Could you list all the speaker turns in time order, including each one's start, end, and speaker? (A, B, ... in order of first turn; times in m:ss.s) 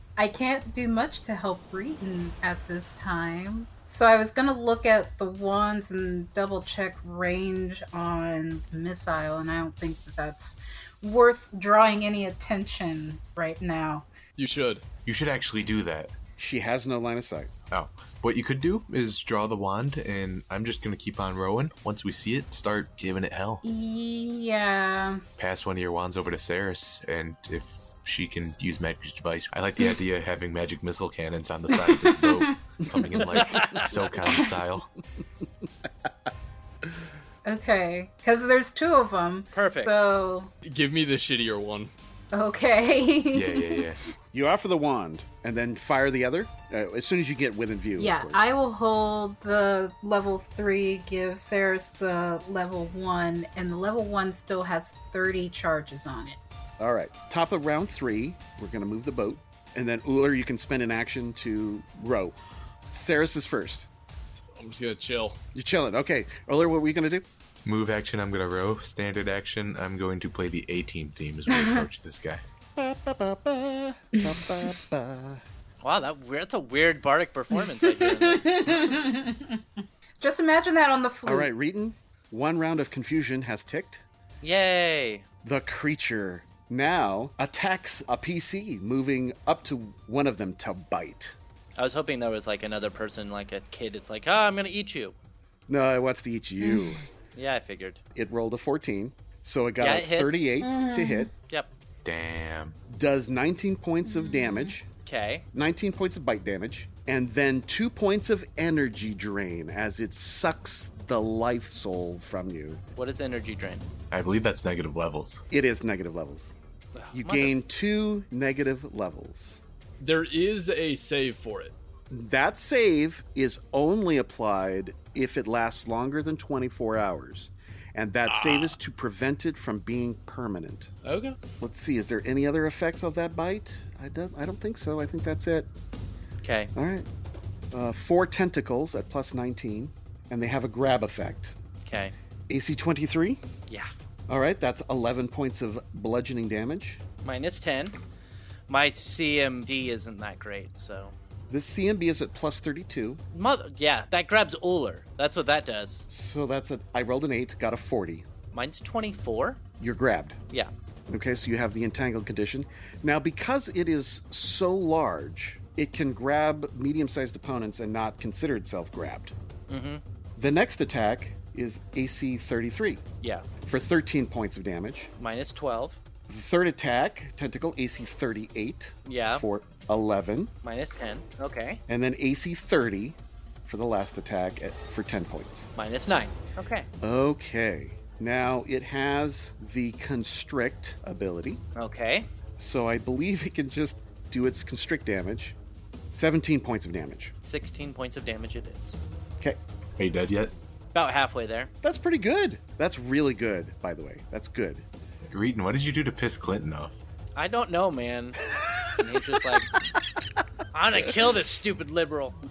0:00.2-0:14.1 A
0:14.4-0:14.8 B
0:15.0-0:16.1 C
0:16.4-0:17.5 D
0:17.7-0:23.6 C
0:23.6-0:25.2 A
0:25.4-0:34.9 C
0:31.7-0:32.5 A
0:33.5-0:33.9 E
0:33.5-0:34.0 D
0:34.2-0:34.5 A
0:37.4-0:40.5 A
0:39.5-0:39.9 E
0:40.6-0:41.9 B
0:42.3-0:43.9 A
0:43.3-0:44.0 C
0:44.3-0:48.4 D
0:48.0-0:56.4 A
0:56.8-1:02.4 D
1:02.9-1:03.9 D
1:04.5-1:05.4 B
1:05.5-1:07.2 D
1:07.6-1:12.4 C
1:11.5-1:11.8 A
1:12.8-1:15.4 D
1:15.8-1:18.8 E
1:18.0-1:19.6 A
1:20.2-1:21.5 A
1:21.2-1:24.0 D
1:24.4-1:25.2 E
1:25.4-1:31.4 D
1:31.8-1:35.2 E
1:35.7-1:37.0 D
1:36.6-1:37.0 A
1:37.3-1:38.0 E
1:38.1-1:41.3 D
1:39.8-1:40.5 E
1:40.6-1:41.3 A
1:42.0-1:42.8 C
1:42.9-1:44.8 D
1:44.0-1:44.7 A
1:45.0-1:45.4 E
1:45.5-1:52.8 D
1:53.0-1:53.9 E
1:54.1-1:55.4 C
1:55.5-1:56.5 D
1:56.9-1:57.6 E
1:57.1-1:59.6 D
2:00.0-2:01.7 B
2:02.1-2:10.9 D
2:08.3-2:08.8 B
2:11.0-2:11.4 B
2:11.6-2:15.7 D
2:16.4-2:16.7 E
2:16.7-2:17.1 D
2:17.7-2:21.6 D
2:21.8-2:22.1 E
2:22.5-2:23.4 D
2:24.3-2:27.0 D
2:27.2-2:28.0 E
2:28.7-2:31.1 E
2:31.5-2:33.2 D
2:33.3-2:36.1 E
2:36.1-2:38.2 D
2:38.5-2:39.6 E
2:39.8-2:40.4 D
2:41.1-2:49.3 D
2:49.7-2:50.0 E
2:50.4-2:53.0 D
2:53.6-2:55.1 D
2:55.2-2:56.0 E
2:56.3-3:00.5 D
2:59.0-2:59.4 E
3:00.6-3:01.8 E
3:01.9-3:05.7 D
3:05.8-3:06.9 E
3:07.0-3:11.6 D
3:11.8-3:12.3 E
3:12.6-3:15.6 D
3:16.1-3:17.3 D
3:17.4-3:19.0 E
3:20.0-3:20.5 C
3:20.9-3:21.7 E
3:21.8-3:24.8 D
3:25.3-3:27.0 C
3:27.4-3:28.4 E
3:29.0-3:29.7 E
3:30.7-3:32.4 E